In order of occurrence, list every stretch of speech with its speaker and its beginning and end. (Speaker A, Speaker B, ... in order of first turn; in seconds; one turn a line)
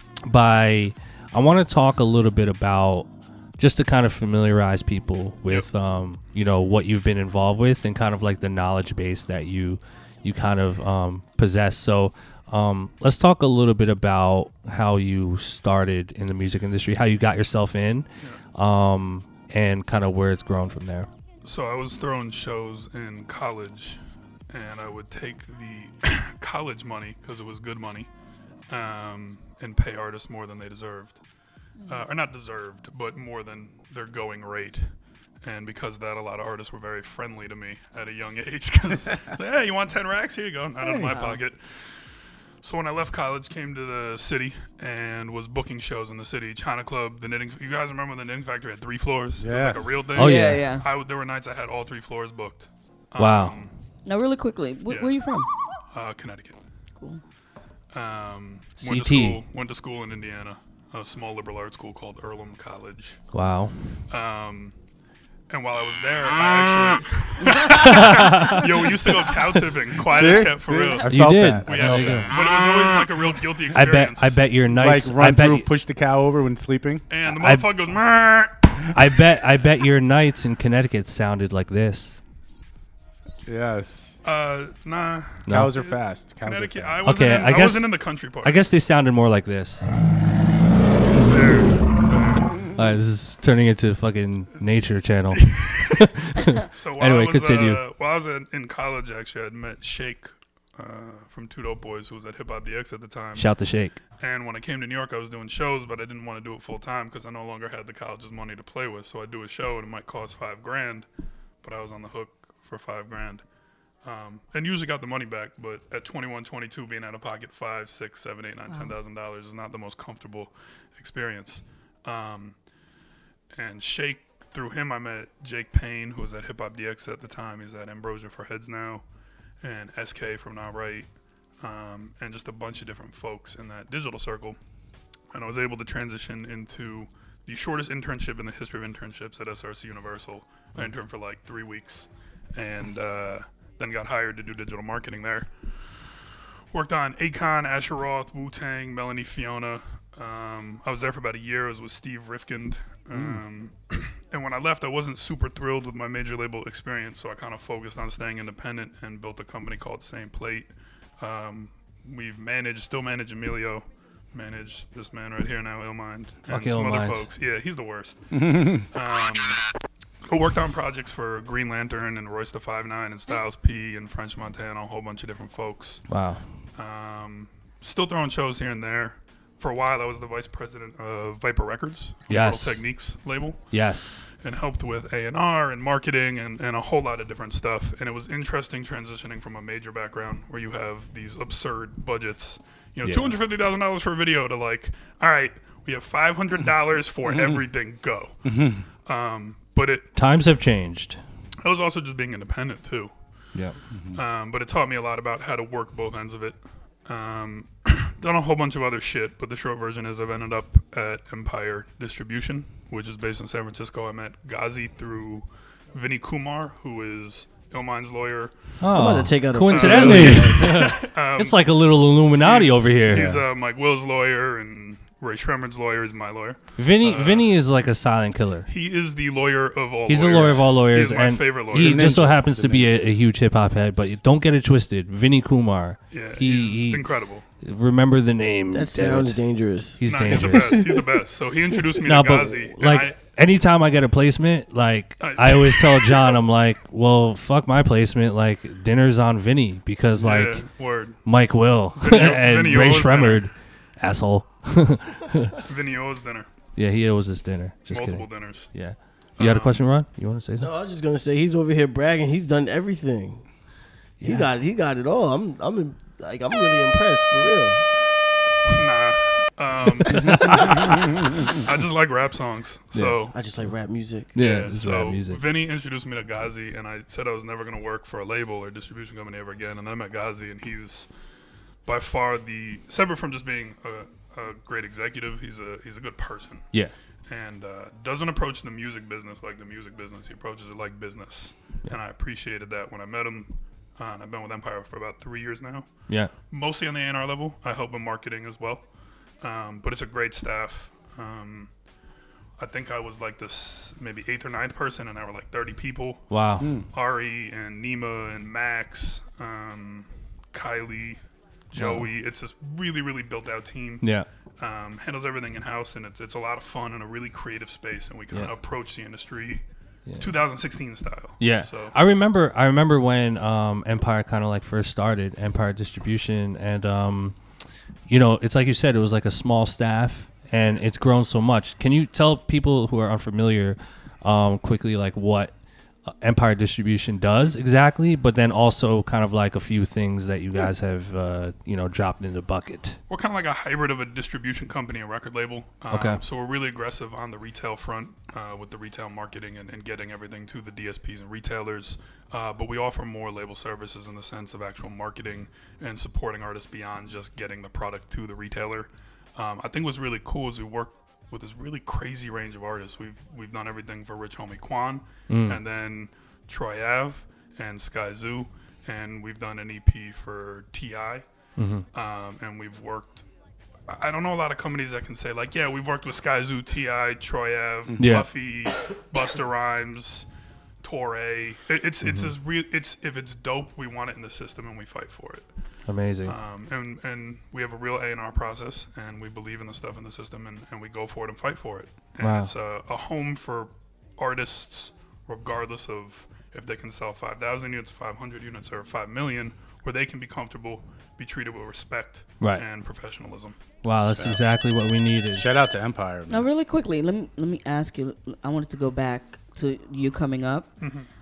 Speaker A: 0.2-21.1
Speaker B: 21.4-28.1
Speaker B: 28.7-31.2
Speaker B: 31.9-34.9
Speaker B: 35.4-42.1
Speaker C: 40.8-41.2
Speaker D: 41.1-41.4
Speaker B: 42.6-53.7
Speaker C: 49.4-50.1
Speaker A: 50.1-50.7
Speaker D: 50.1-50.8
Speaker A: 53.2-53.5
Speaker D: 54.0-55.5
Speaker B: 55.9-56.6
Speaker D: 57.0-57.2
Speaker B: 57.9-63.2
Speaker A: 58.8-59.4
Speaker A: 63.3-63.7
Speaker B: 64.1-64.7
Speaker B: 65.5-74.4
Speaker A: 67.8-68.6
Speaker C: 70.0-72.3
Speaker A: 71.1-72.3
Speaker A: 73.7-75.7
Speaker C: 74.7-77.0
Speaker B: 77.1-78.7
Speaker A: 77.3-77.6
Speaker A: 78.9-82.2
Speaker C: 83.5-84.2
Speaker B: 84.2-88.7
Speaker A: 85.5-85.8
Speaker C: 85.5-87.0
Speaker A: 87.0-87.9
Speaker A: 88.4-89.9
Speaker B: 91.2-92.5
Speaker A: 92.8-97.8
Speaker B: 95.5-95.8
Speaker B: 96.7-103.5
Speaker A: 103.3-104.0
Speaker B: 104.2-111.1
Speaker B: 111.6-113.4
Speaker B: 114.0-122.5
Speaker D: 118.7-118.9
Speaker B: 123.5-129.0
Speaker B: 129.6-131.1
Speaker B: 131.6-134.6
Speaker B: 135.3-146.0
Speaker B: 146.7-169.6
Speaker C: 153.1-153.4
Speaker A: 166.5-167.2
Speaker C: 168.3-168.8
Speaker B: 170.3-176.1
Speaker A: 176.1-176.4
Speaker B: 176.8-183.7
Speaker A: 182.3-182.8
Speaker A: 183.7-184.2
Speaker B: 184.4-200.1
Speaker A: 193.0-193.3
Speaker C: 198.4-198.8
Speaker A: 200.1-201.2
Speaker B: 201.6-203.1
Speaker A: 203.5-203.8
Speaker C: 203.9-204.2
Speaker B: 204.1-218.5
Speaker A: 218.8-223.3
Speaker E: 218.9-220.7
Speaker B: 219.7-221.6
Speaker B: 222.3-227.5
Speaker C: 223.1-223.4
Speaker A: 226.8-228.7
Speaker B: 228.7-232.2
Speaker A: 230.1-237.1
Speaker C: 231.7-232.9
Speaker B: 236.1-237.4
Speaker A: 237.6-239.4
Speaker E: 238.7-241.0
Speaker A: 240.0-240.8
Speaker B: 240.0-243.2
Speaker A: 242.0-255.5
Speaker B: 245.2-246.4
Speaker B: 250.1-251.2
Speaker B: 252.0-253.4
Speaker B: 255.6-256.5
Speaker A: 256.8-260.7
Speaker B: 257.9-258.7
Speaker B: 259.4-259.8
Speaker E: 260.6-263.5
Speaker E: 264.2-267.8
Speaker B: 268.7-273.3
Speaker E: 273.3-274.3
Speaker A: 274.3-275.4
Speaker B: 274.4-281.1
Speaker B: 281.9-286.7
Speaker B: 287.3-298.8
Speaker B: 299.4-301.7
Speaker B: 302.6-314.0
Speaker A: 306.3-306.7
Speaker C: 306.6-306.9
Speaker A: 311.7-312.1
Speaker A: 314.0-314.3
Speaker B: 314.6-319.6
Speaker B: 320.2-321.9
Speaker A: 321.4-327.4
Speaker A: 328.1-335.5
Speaker A: 336.1-343.0
Speaker B: 343.1-371.2
Speaker A: 345.9-346.2
Speaker A: 365.3-365.6
Speaker A: 371.6-371.8
Speaker B: 371.9-373.2
Speaker B: 373.9-380.3
Speaker A: 378.0-378.3
Speaker B: 380.8-385.5
Speaker A: 382.0-382.3
Speaker A: 385.9-386.3
Speaker B: 386.2-403.6
Speaker A: 392.2-392.5
Speaker A: 403.8-405.5
Speaker C: 404.1-404.4
Speaker C: 405.4-406.4
Speaker D: 406.3-410.7
Speaker B: 410.8-411.1